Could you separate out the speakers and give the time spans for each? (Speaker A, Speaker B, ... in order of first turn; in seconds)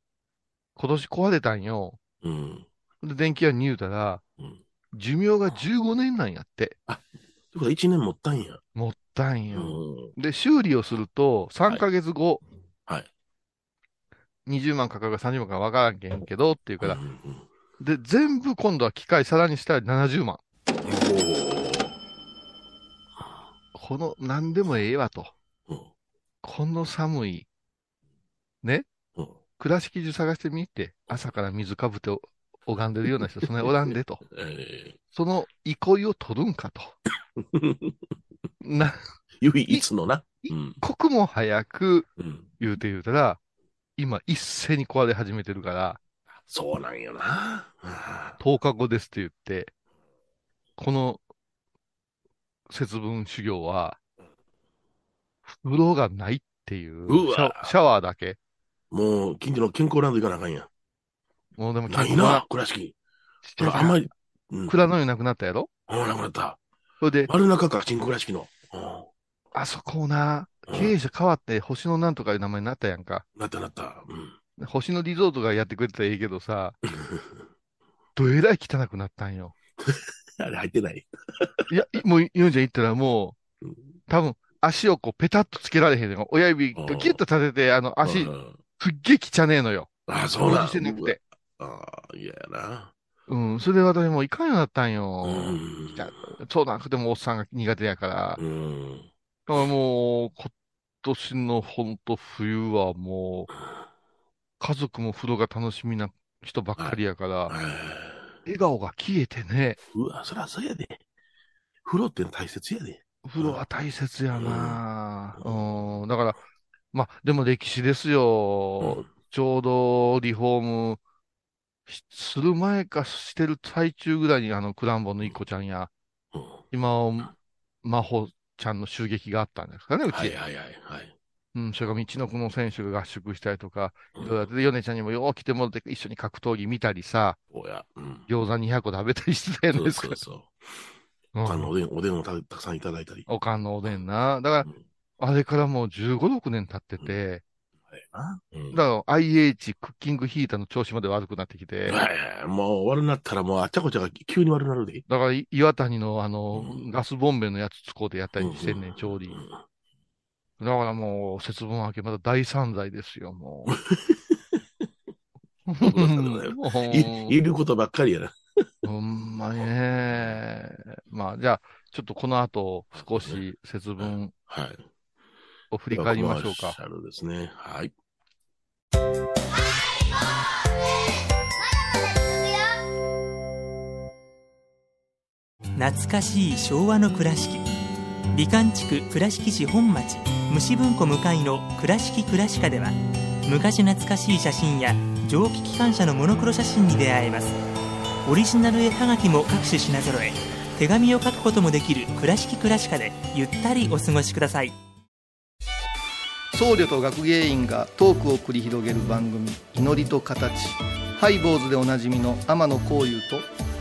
Speaker A: 0.8-2.0, 3.0-4.2, 4.9-6.8, 8.8-12.4, 14.5-17.0, 17.8-20.4, 23.8-25.3, 26.4-27.5, 29.6-34.2, 35.1-37.0, 38.6-39.0, 40.4-42.1, 42.6-43.4, 44.0-46.0, 48.4-49.7, 50.8-51.2, 52.7-54.0, 55.5-58.4, 61.6-62.5, 63.4-64.0, 64.7-65.7, 67.0-67.3, 69.5-73.2, 74.6-76.8, 78.2-79.5, 81.7-83.4, 84.1-91.2, 93.3-98.4, 99.5-103.5, 104.6-107.5, 108.5-109.8, 113.2-116.4, 116.9-121.0, 121.9-125.9, 126.7-130.4, 131.5-137.4, 138.3-140.2, 141.3-141.7, 143.3-147.4, 148.7-152.0, 155.1-159.4, 160.6-163.8, 165.7-167.4, 168.8-174.3, 175.7-176.8
Speaker B: 2.2-2.7, 6.9-8.6, 9.5-10.1, 16.8-17.5, 20.8-21.9, 33.6-35.0, 37.4-38.0, 39.4-40.8, 42.2-42.5, 46.5-48.4, 57.1-57.7, 58.9-60.7, 61.9-63.0, 63.6-64.8, 65.9-66.6, 67.3-69.1, 70.7-70.9, 73.4-74.4, 76.9-77.4, 79.8-81.7, 86.8-87.2, 88.0-88.6, 90.1-92.9, 95.2-96.2, 98.4-99.1, 107.5-108.3, 109.9-111.0, 111.8-113.6, 114.3-114.8, 115.4-115.7, 118.8-119.1, 126.3-126.6, 130.1-131.1, 134.2-134.5, 137.5-138.3, 139.7-140.6, 141.4-143.3, 147.9-148.8, 151.9-155.0, 156.5-156.8, 158.4-159.6, 163.7-164.6, 165.8-168.7, 170.1-170.4, 172.9-173.4, 174.0-174.8, 175.9-177.9
Speaker C: 185.8-187.7, 188.3-197.6, 198.2-204.8
Speaker D: 206.5-213.5